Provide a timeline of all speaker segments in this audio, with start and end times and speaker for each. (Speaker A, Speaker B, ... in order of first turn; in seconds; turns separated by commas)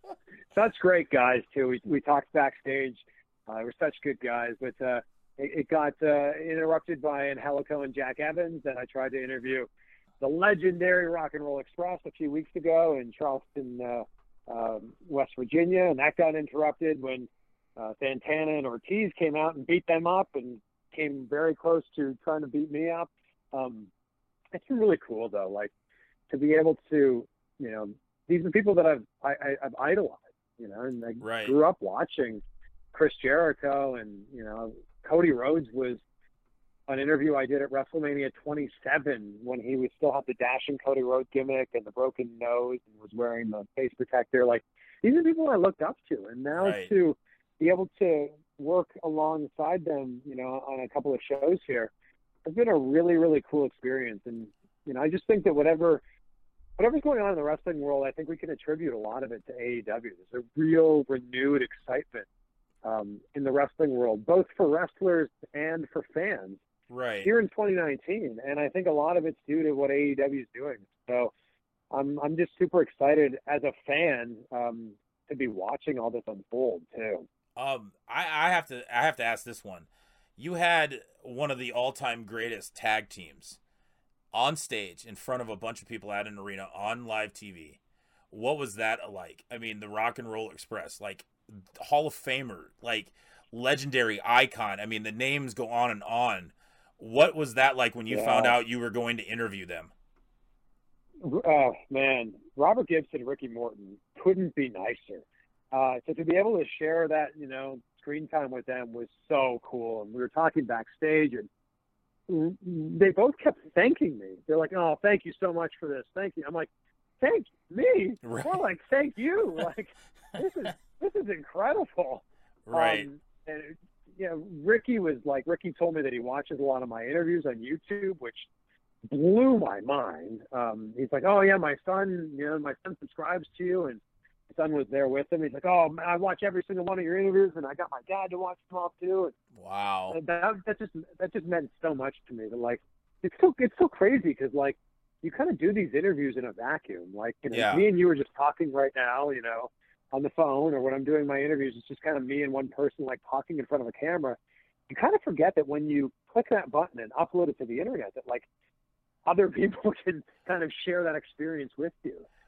Speaker A: 0.5-9.7, Speaker A: 10.2-23.9, Speaker A: 24.5-25.7, Speaker A: 26.3-32.4, Speaker B: 31.2-31.6, Speaker A: 32.9-36.0, Speaker A: 36.9-51.9, Speaker B: 46.5-46.9, Speaker A: 52.4-56.0, Speaker A: 56.8-62.2, Speaker A: 62.8-66.6, Speaker B: 66.9-67.3, Speaker A: 67.2-71.3, Speaker A: 71.9-77.2, Speaker B: 77.5-83.6, Speaker B: 84.3-87.8, Speaker B: 88.3-99.9, Speaker A: 98.1-98.5, Speaker A: 101.2-111.5, Speaker A: 112.3-116.7, Speaker A: 117.2-128.5, Speaker B: 118.2-118.6, Speaker B: 122.7-123.1, Speaker A: 129.1-139.3, Speaker B: 139.5-140.2, Speaker A: 140.1-154.4, Speaker B: 147.5-147.8, Speaker A: 154.9-158.4, Speaker A: 159.2-162.3